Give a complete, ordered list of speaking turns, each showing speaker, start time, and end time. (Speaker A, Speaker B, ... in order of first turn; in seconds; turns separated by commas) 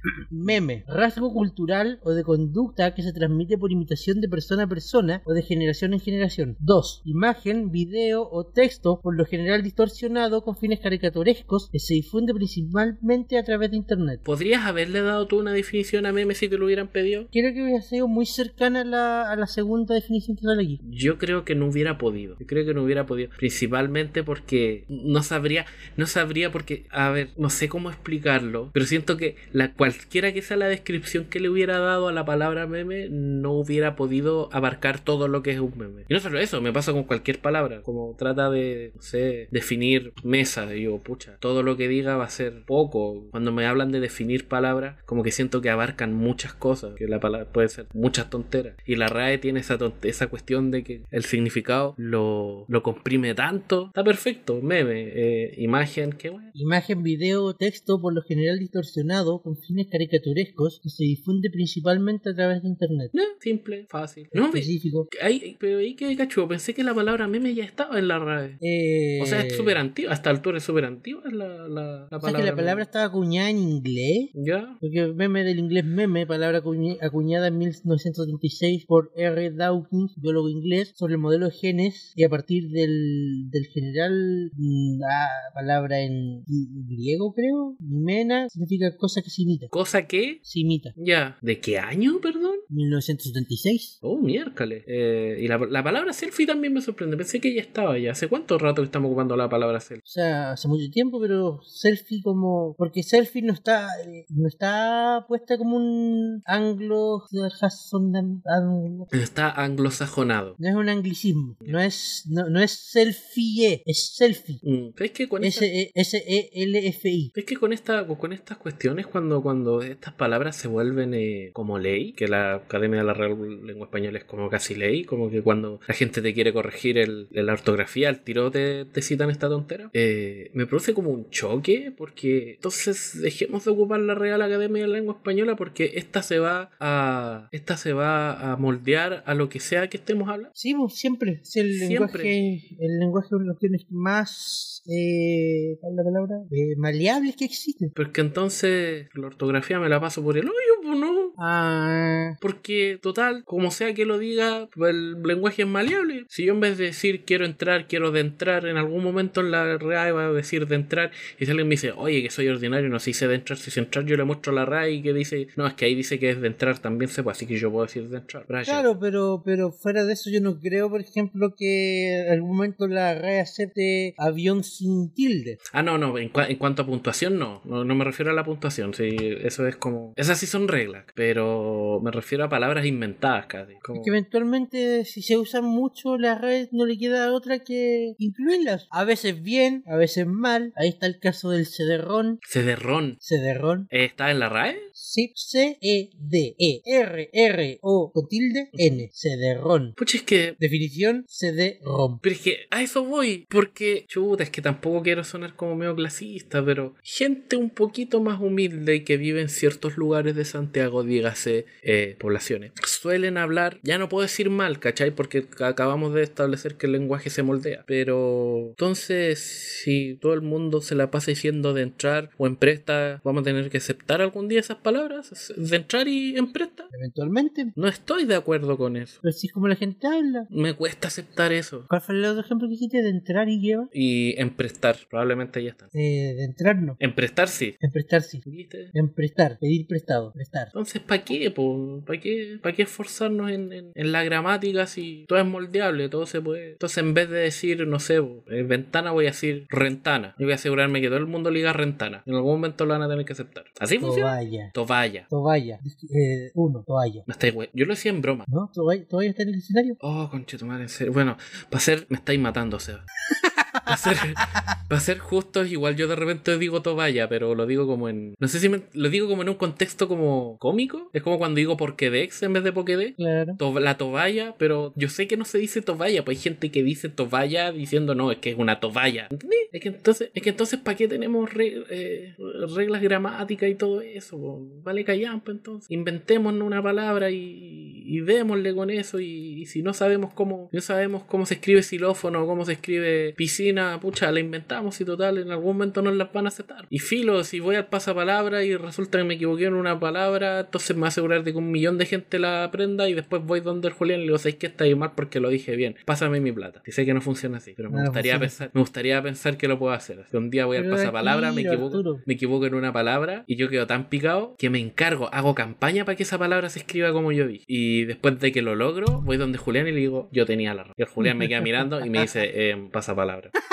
Speaker A: 0.3-14.2, Speaker B: 14.2-17.3, Speaker A: 17.3-20.8, Speaker B: 20.8-56.5, Speaker A: 56.5-63.1, Speaker B: 63.1-68.6, Speaker A: 64.3-65.1, Speaker A: 68.6-69.8, Speaker B: 69.2-72.9, Speaker A: 72.2-89.7, Speaker B: 74.3-74.8, Speaker B: 89.7-90.4, Speaker A: 90.5-91.0, Speaker B: 91.0-92.6, Speaker A: 92.7-94.0, Speaker B: 94.0-100.0, Speaker A: 100.0-109.1, Speaker B: 109.1-110.6, Speaker A: 110.6-114.6, Speaker B: 114.6-115.7, Speaker A: 115.4-117.3, Speaker B: 117.3-140.5, Speaker A: 140.6-147.9, Speaker B: 141.7-142.4, Speaker B: 148.0-151.4, Speaker A: 151.4-152.4, Speaker B: 152.4-168.9, Speaker A: 168.7-175.6, Speaker B: 175.7-184.1, Speaker A: 183.9-192.4, Speaker B: 192.4-193.2, Speaker A: 193.2-193.9, Speaker B: 193.9-194.9, Speaker A: 194.9-200.0, Speaker B: 198.7-199.1, Speaker B: 200.0-200.6, Speaker A: 200.6-202.2, Speaker B: 202.2-226.9, Speaker A: 226.9-227.8, Speaker B: 227.8-229.2, Speaker A: 229.2-230.5, Speaker B: 230.5-231.9, Speaker A: 231.9-233.9, Speaker B: 233.9-235.9, Speaker A: 235.9-237.0, Speaker B: 237.0-237.8, Speaker A: 237.8-240.7, Speaker B: 238.4-238.9, Speaker B: 240.7-255.3, Speaker A: 254.0-254.7, Speaker A: 255.3-257.3, Speaker B: 257.3-258.5, Speaker A: 258.5-260.0, Speaker B: 260.0-263.1, Speaker A: 263.4-264.1, Speaker B: 263.9-323.5, Speaker A: 273.2-273.6, Speaker A: 307.9-308.6, Speaker A: 310.8-312.2, Speaker A: 321.2-322.3